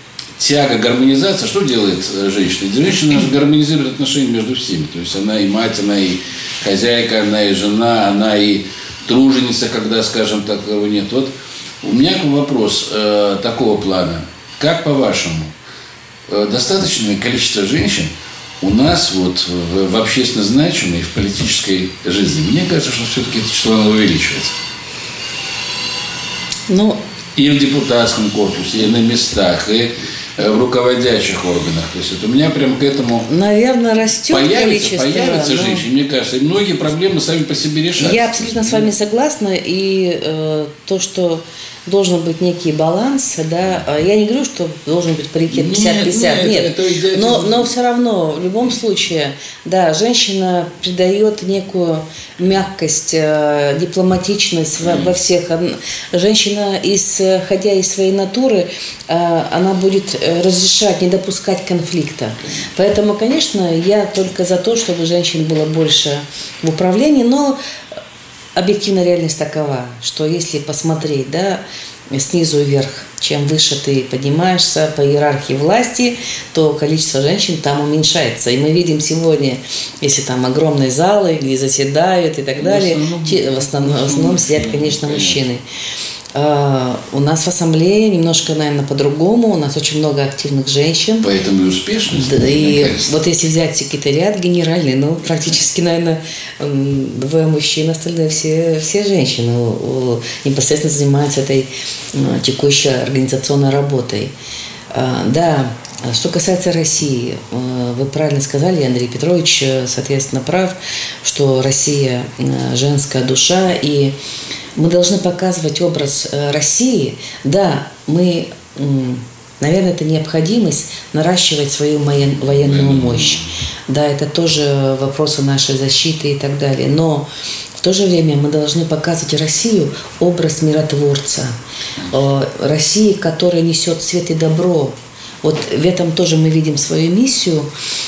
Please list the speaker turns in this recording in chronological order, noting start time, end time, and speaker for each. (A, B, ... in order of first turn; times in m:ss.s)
0:00.4-0:11.3 A
0:11.8-0:15.5 A
0:16.3-0:24.6 A
0:26.7-0:27.0 B
0:27.4-0:33.3 A
0:33.3-0:35.8 B
0:34.3-0:38.9 A
0:38.0-1:07.6 B
0:45.5-0:47.7 A
0:54.8-0:55.1 A
1:08.6-1:25.6 B
1:22.6-1:25.4 A
1:26.3-1:31.3 B
1:31.2-1:33.1 A
1:32.1-1:44.3 B
1:44.9-1:54.1 B
1:54.8-2:07.2 B
2:02.5-2:03.5 A
2:07.8-2:11.6 B
2:12.1-2:17.7 B